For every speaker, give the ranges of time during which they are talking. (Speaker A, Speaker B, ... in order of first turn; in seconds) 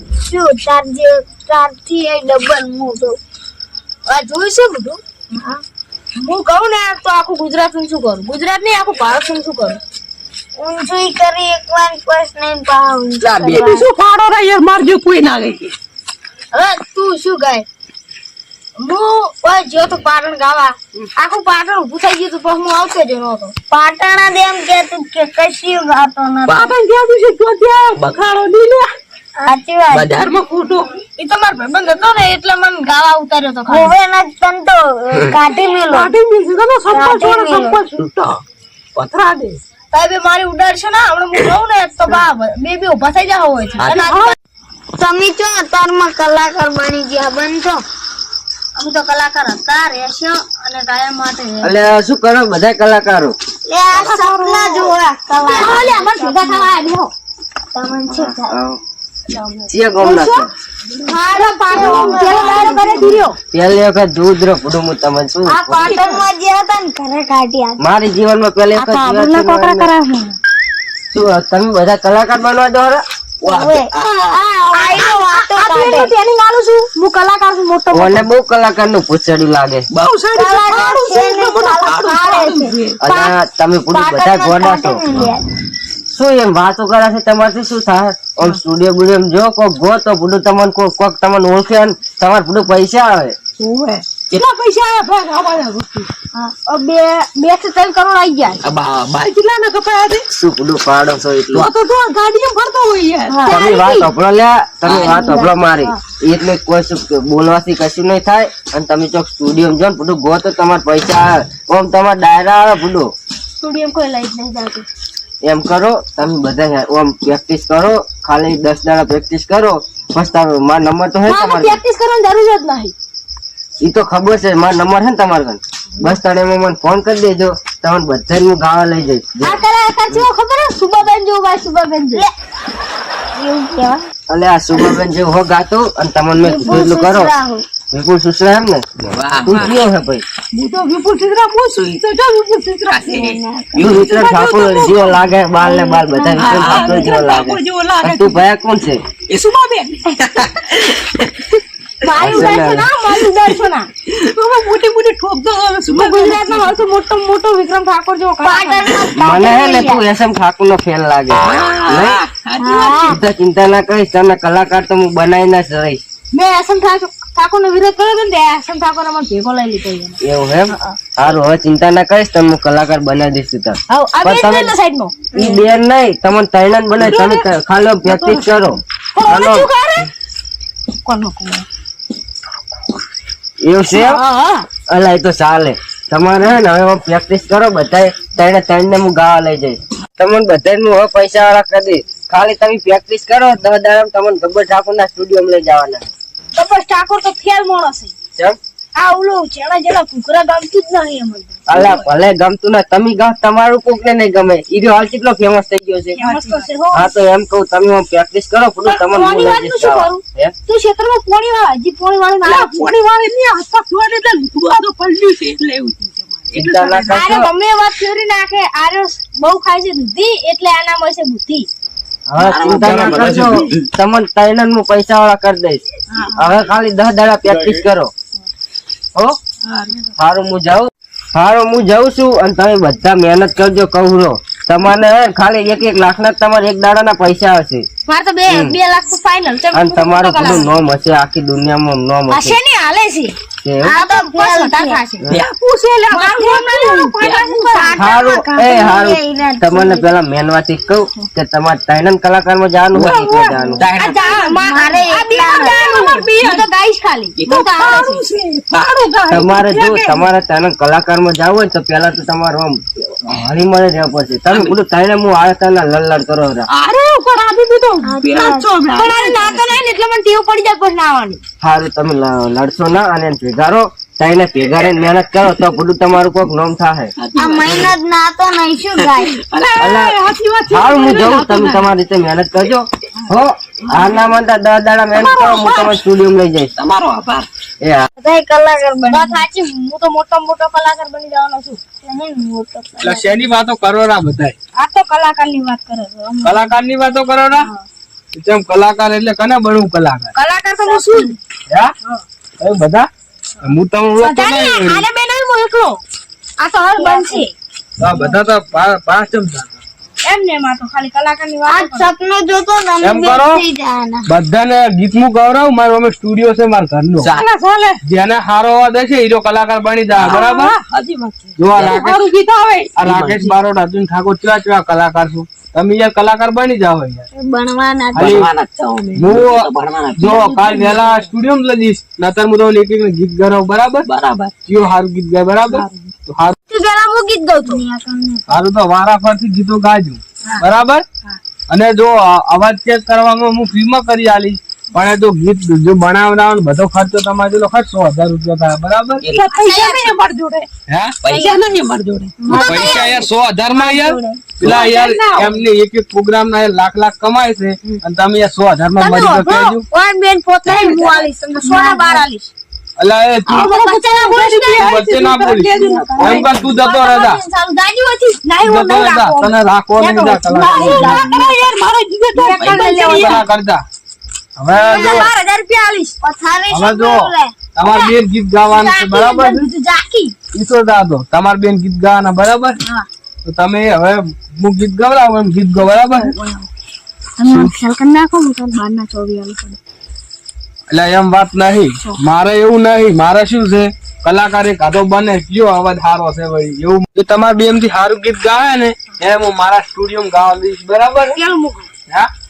Speaker A: 0.3-3.2, 5.4-5.6, 10.6-13.9, 23.7-26.7, 29.4-30.1, 33.7-36.1, 36.9-37.8, 45.0-47.8, 53.7-56.7, 57.7-58.6, 61.1-63.2, 65.7-67.8, 73.4-76.1, 80.3-82.7, 83.9-85.4, 133.3-134.1, 136.4-137.7, 143.1-144.2, 145.6-147.2, 158.4-160.0, 162.6-163.2, 243.9-245.0, 247.7-250.1, 254.6-256.1, 268.0-268.7, 277.4-279.3, 288.2-289.4, 292.0-293.4, 300.9-301.3, 306.9-307.4, 311.7-314.3, 327.3-328.4, 337.6-338.6, 352.4-354.4, 361.6-362.2, 365.8-366.7, 374.8-375.3, 376.2-377.5
Speaker B: 4.1-5.0, 6.2-9.8, 16.5-17.7, 18.8-23.6, 31.2-33.9, 39.9-44.4, 48.8-51.8, 53.9-54.9, 55.5-57.1, 60.0-60.5, 61.0-63.4, 65.5-66.2, 68.8-70.4, 74.4-78.2, 96.4-98.7, 103.3-104.0, 105.0-106.0, 113.6-114.8, 121.3-122.9, 129.4-132.3, 152.0-153.9, 155.9-159.0, 166.3-170.2, 170.7-171.0, 173.9-175.5, 179.2-180.1, 181.1-181.7, 183.9-184.7, 196.5-198.1, 199.0-202.1, 206.2-207.1, 208.9-212.9, 217.1-221.7, 238.1-240.7, 242.3-243.3, 243.9-245.4, 246.1-248.0, 254.0-258.2, 268.9-271.4, 289.1-291.8, 294.8-296.8, 297.6-297.8, 300.4-301.3, 304.2-306.0, 306.6-307.5, 310.2-312.1, 336.7-337.8, 349.5-350.1, 352.4-353.0, 359.0-362.5, 363.5-364.9, 365.9-371.7, 372.4-373.4, 374.7-376.2, 377.9-378.1, 378.7-380.4, 386.0-386.7, 387.4-389.8, 401.3-401.9
Speaker C: 13.3-15.8, 26.5-28.9, 30.2-30.9, 35.9-38.4, 39.0-39.6, 43.8-44.3, 61.7-63.0, 65.8-66.2, 79.9-83.0, 93.6-96.1, 98.8-100.3, 101.5-103.4, 104.9-105.3, 139.2-139.8, 140.5-145.2, 146.4-148.4, 149.3-150.9, 154.1-156.8, 161.4-163.2, 177.0-177.4, 178.0-178.8, 206.2-206.7, 212.4-217.2, 222.4-223.8, 229.7-230.0, 245.3-247.9, 252.9-254.6, 255.4-256.7, 257.4-260.3, 266.7-269.8, 277.2-277.9, 278.9-281.9, 285.1-286.0, 286.8-287.5, 317.2-318.0, 320.2-323.5, 328.2-329.2, 330.1-331.3, 334.1-334.5, 335.7-336.0, 349.2-350.7, 351.2-352.4, 354.6-355.6, 360.6-361.3, 363.5-366.6, 370.5-373.4
Speaker D: 51.6-53.4, 58.1-58.8, 59.7-60.5, 63.5-66.0, 67.8-69.9, 71.1-73.0, 77.9-79.9, 83.0-85.2, 86.1-93.4, 100.3-101.7, 103.5-113.1, 115.4-121.8, 123.8-130.3, 134.3-137.3, 137.9-138.8, 139.4-140.2, 143.8-149.0, 152.2-152.9, 159.2-162.2, 163.0-166.0, 170.2-174.8, 175.3-179.7, 183.6-184.2, 184.9-196.1, 201.7-206.2, 206.9-210.5, 216.5-217.5, 222.3-225.8, 226.4-228.1, 230.2-237.9, 238.5-238.8, 239.7-242.6, 243.6-243.9, 248.0-253.9, 259.3-266.7, 271.6-277.1, 279.8-280.2, 280.7-286.7, 287.8-288.1
Speaker E: 222.6-223.7, 293.0-294.6, 296.4-297.7, 298.3-300.3, 302.6-303.1, 303.6-305.0, 308.0-309.8, 313.0-313.6, 314.3-317.4, 318.1-320.8, 321.6-322.3, 323.0-327.3, 328.1-328.5, 329.1-334.1, 334.6-336.6, 338.5-341.0, 341.7-349.2, 350.9-351.1, 352.5-359.9, 363.0-363.7, 364.6-367.4, 368.6-371.2, 372.9-373.8, 374.6-375.3, 376.7-379.7, 380.5-382.8, 383.5-386.3, 390.9-401.4